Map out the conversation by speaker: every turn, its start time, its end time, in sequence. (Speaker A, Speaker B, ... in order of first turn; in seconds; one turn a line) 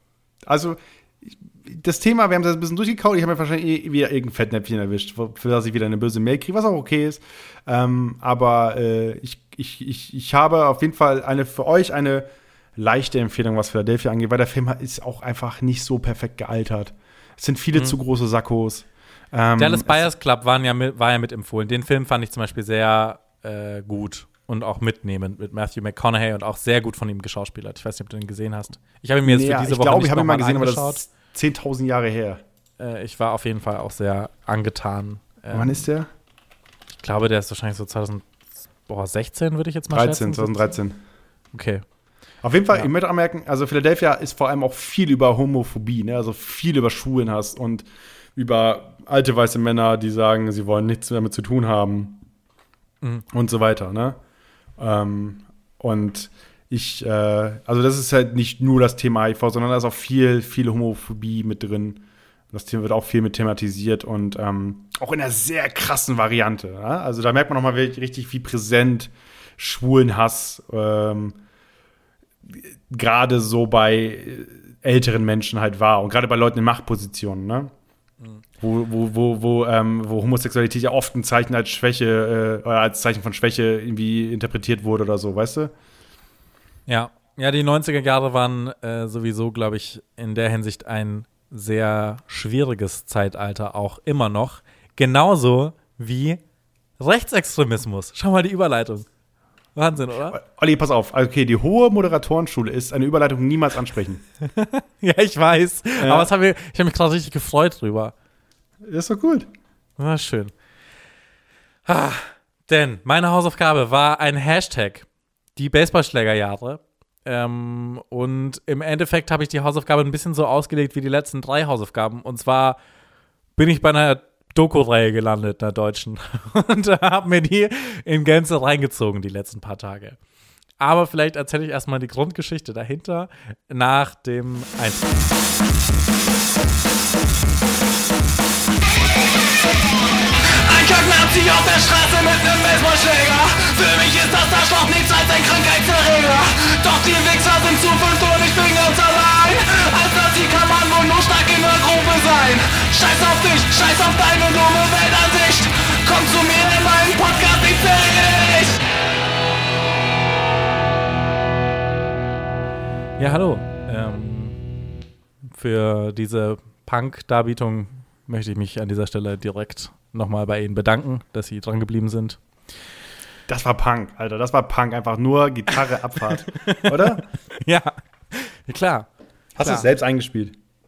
Speaker A: 0.4-20.1
Speaker B: 19.6-31.0
Speaker A: 29.2-32.4
Speaker B: 32.8-35.8
Speaker A: 35.5-36.1
Speaker B: 37.0-38.3
Speaker B: 38.9-40.7
Speaker A: 39.9-41.0
Speaker B: 41.5-41.8
Speaker A: 42.4-52.2
Speaker A: 53.3-54.2
Speaker A: 54.8-71.4
Speaker A: 72.5-77.7
Speaker A: 78.6-85.7
Speaker B: 86.9-96.4
Speaker B: 97.0-99.1
Speaker B: 99.7-100.4
Speaker A: 100.3-104.2
Speaker B: 104.4-108.1
Speaker A: 106.0-106.3
Speaker A: 108.8-109.5
Speaker B: 110.0-110.5
Speaker B: 111.8-122.8
Speaker B: 123.6-130.2
Speaker B: 130.8-135.1
Speaker C: 140.6-158.8
Speaker B: 163.2-164.6
Speaker B: 165.5-172.4
Speaker A: 173.5-177.2
Speaker B: 176.4-179.1
Speaker A: 179.6-180.6
Speaker B: 179.6-179.9